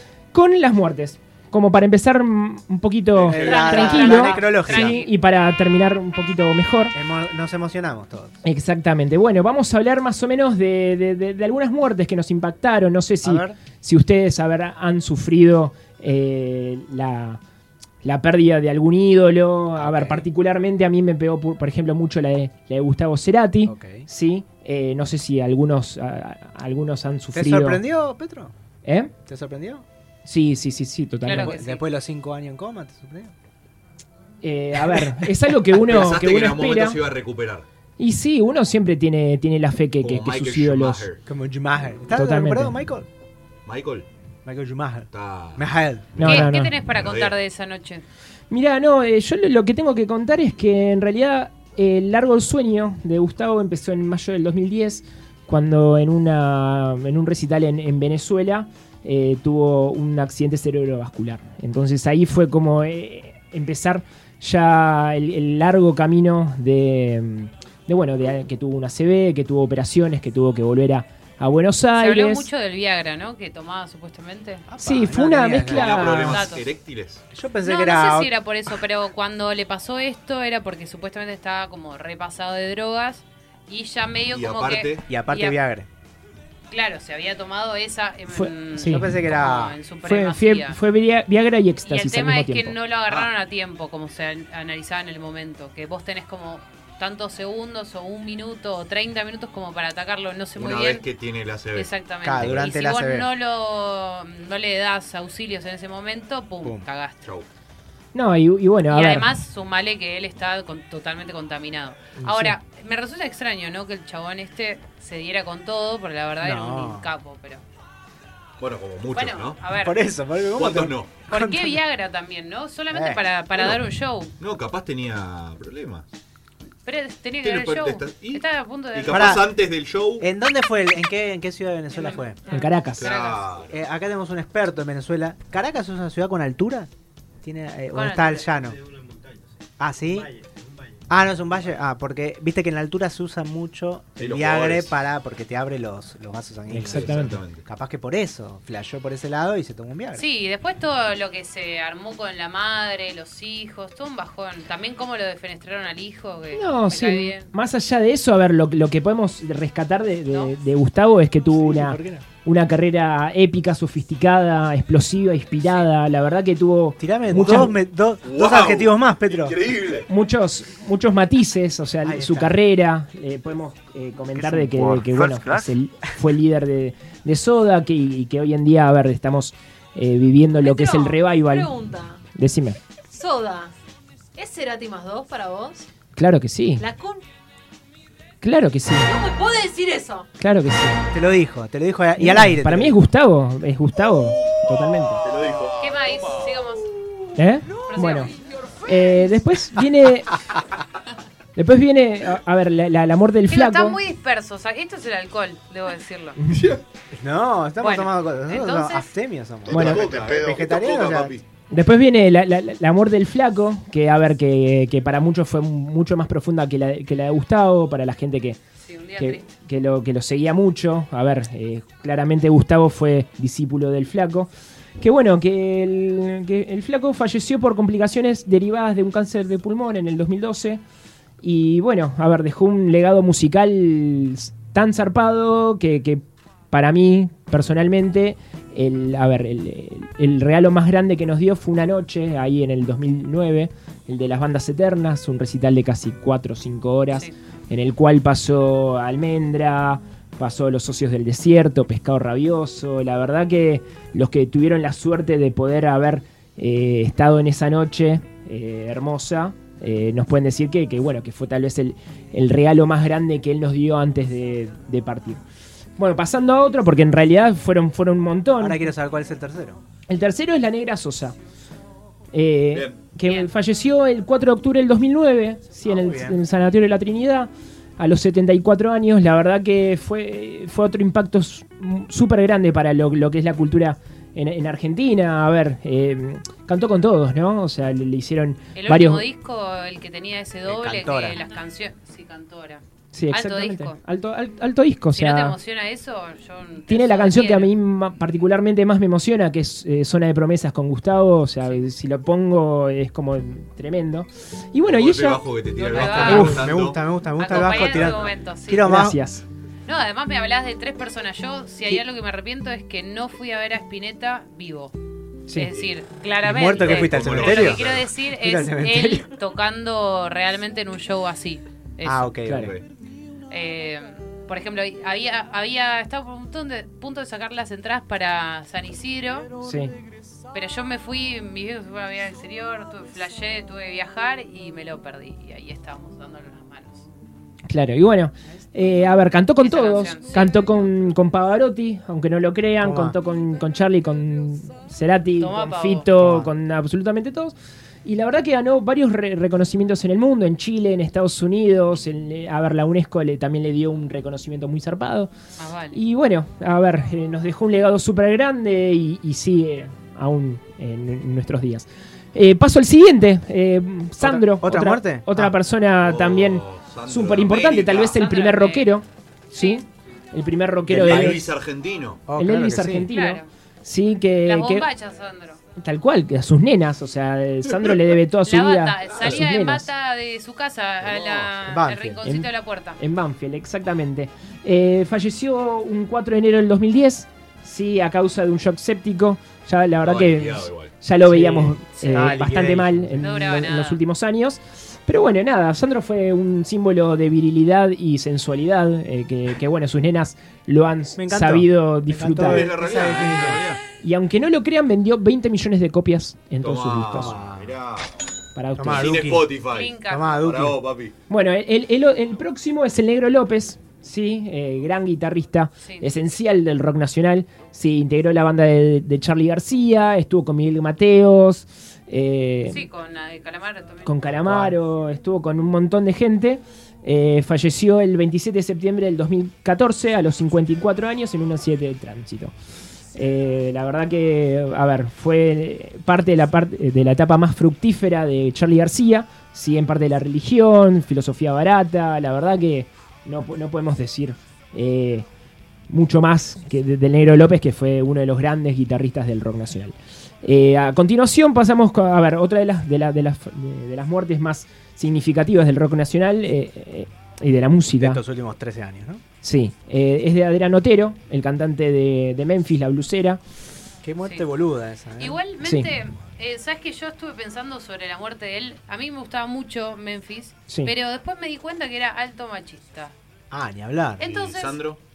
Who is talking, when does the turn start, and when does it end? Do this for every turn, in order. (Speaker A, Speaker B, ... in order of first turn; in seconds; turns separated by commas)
Speaker A: 0.3-7.0, Speaker B: 3.2-5.0, Speaker C: 3.4-5.2, Speaker B: 6.9-8.4, Speaker A: 8.4-17.4, Speaker B: 13.2-13.6, Speaker A: 18.0-27.8, Speaker B: 19.8-20.3, Speaker B: 23.7-24.1, Speaker B: 27.3-28.5, Speaker A: 28.9-29.1, Speaker B: 29.3-29.9, Speaker A: 30.2-31.6, Speaker C: 31.2-31.9, Speaker B: 31.3-33.3, Speaker A: 34.4-37.0, Speaker B: 34.8-35.6, Speaker D: 35.7-37.7, Speaker A: 38.0-41.1, Speaker D: 40.0-41.2, Speaker B: 41.3-43.1, Speaker A: 42.1-42.7, Speaker D: 43.7-44.1, Speaker B: 44.5-46.1, Speaker D: 45.1-47.4, Speaker A: 46.2-46.8, Speaker C: 46.2-48.0, Speaker A: 48.5-72.5, Speaker C: 72.0-74.7, Speaker B: 74.7-76.2, Speaker A: 74.8-76.4, Speaker D: 75.6-77.2, Speaker C: 76.1-76.7, Speaker B: 77.3-78.3, Speaker C: 77.6-85.6, Speaker D: 84.3-85.1, Speaker B: 85.1-85.9, Speaker C: 86.7-90.8, Speaker A: 88.3-89.1, Speaker B: 88.8-89.8, Speaker A: 90.0-92.8, Speaker C: 91.9-101.0, Speaker D: 100.6-102.7, Speaker C: 101.8-107.2, Speaker B: 102.2-103.3, Speaker A: 108.1-109.3, Speaker C: 108.9-117.6, Speaker A: 112.2-112.5, Speaker B: 116.4-117.1, Speaker D: 118.6-119.6, Speaker C: 119.2-120.0, Speaker B: 119.8-121.8, Speaker D: 120.6-121.2, Speaker C: 121.3-124.3, Speaker B: 122.9-123.8, Speaker D: 124.4-126.1, Speaker C: 126.8-129.4, Speaker D: 127.4-130.3, Speaker B: 129.1-129.5, Speaker B: 130.2-132.4, Speaker C: 131.9-133.5, Speaker A: 132.5-133.1, Speaker D: 133.0-133.8, Speaker B: 133.7-136.9, Speaker B: 137.4-138.8, Speaker C: 137.9-138.5, Speaker B: 139.8-140.3, Speaker B: 141.1-150.2, Speaker D: 144.2-144.9, Speaker A: 146.7-147.4, Speaker D: 146.8-147.6, Speaker C: 150.2-157.5, Speaker A: 156.5-167.8, Speaker C: 160.3-160.6, Speaker B: 161.5-162.3, Speaker B: 167.0-169.6, Speaker D: 168.2-170.1, Speaker A: 170.1-181.7, Speaker B: 172.0-172.6, Speaker B: 174.3-175.7, Speaker E: 180.6-182.2, Speaker A: 182.3-182.8, Speaker E: 183.1-183.7, Speaker E: 184.3-185.9, Speaker A: 186.2-186.8, Speaker E: 186.8-187.2, Speaker A: 188.4-189.1, Speaker E: 189.0-190.3, Speaker A: 190.4-191.0, Speaker B: 191.1-193.0, Speaker A: 192.2-195.2, Speaker D: 195.2-195.9, Speaker C: 195.8-197.0, Speaker A: 197.4-198.3, Speaker C: 197.9-198.3, Speaker A: 198.8-200.4, Speaker A: 201.6-204.0, Speaker C: 203.5-206.4, Speaker A: 206.4-206.8, Speaker D: 206.5-206.8, Speaker B: 207.1-211.3, Speaker C: 207.8-209.1, Speaker D: 209.7-211.4, Speaker A: 209.7-210.0, Speaker A: 211.7-218.6, Speaker C: 218.8-219.5, Speaker A: 219.2-230.8, Speaker A: 231.4-265.4, Speaker A: 266.0-268.9, Speaker B: 268.6-269.8, Speaker A: 270.1-271.4, Speaker A: 272.3-289.3, Speaker D: 272.7-273.1, Speaker C: 273.2-273.5, Speaker B: 275.9-276.4, Speaker C: 288.8-294.0, Speaker B: 290.7-291.4, Speaker A: 293.1-295.6, Speaker C: 295.1-297.8, Speaker A: 296.9-305.4, Speaker D: 304.8-308.2, Speaker C: 305.7-306.7, Speaker A: 306.0-306.7, Speaker B: 306.2-309.2, Speaker C: 307.4-308.9, Speaker A: 308.8-309.4, Speaker C: 309.9-314.9, Speaker C: 315.5-322.4, Speaker B: 316.4-319.3, Speaker D: 316.8-318.1, Speaker B: 322.0-322.7, Speaker A: 322.4-322.7, Speaker D: 322.6-322.9, Speaker C: 323.5-329.5, Speaker A: 329.6-329.9, Speaker C: 330.5-337.1, Speaker A: 337.7-355.3, Speaker C: 339.6-340.7, Speaker B: 342.8-343.2, Speaker C: 345.4-346.1, Speaker B: 346.2-346.5, Speaker C: 355.6-356.0, Speaker A: 355.9-371.5, Speaker B: 364.2-365.6, Speaker D: 366.0-368.2, Speaker C: 368.2-368.9, Speaker C: 369.5-369.8, Speaker D: 370.9-372.2, Speaker B: 370.9-371.4, Speaker B: 372.3-373.1, Speaker A: 372.4-374.9, Speaker C: 373.1-373.5, Speaker C: 374.4-375.6, Speaker A: 375.8-379.9, Speaker C: 378.4-383.0, Speaker D: 381.0-381.6, Speaker B: 381.7-382.2, Speaker A: 382.2-402.7, Speaker D: 390.0-390.9, Speaker B: 391.2-393.2, Speaker C: 391.9-392.3, Speaker C: 393.2-394.0, Speaker B: 401.2-403.6, Speaker D: 402.4-403.8, Speaker A: 404.0-407.4, Speaker D: 406.6-408.1, Speaker B: 407.1-407.7, Speaker A: 408.6-409.2, Speaker B: 408.8-409.5, Speaker D: 408.9-411.1, Speaker C: 409.7-410.5, Speaker B: 410.1-410.8, Speaker A: 411.3-422.9, Speaker C: 415.8-416.1, Speaker C: 422.6-424.4, Speaker A: 424.0-432.5, Speaker B: 424.4-424.8, Speaker A: 433.1-445.3, Speaker A: 445.9-458.2, Speaker B: 457.9-459.2, Speaker A: 459.4-463.4, Speaker B: 464.0-465.4, Speaker C: 465.2-473.1, Speaker A: 465.6-465.9, Speaker B: 473.5-474.3, Speaker C: 474.2-474.8, Speaker D: 474.2-475.0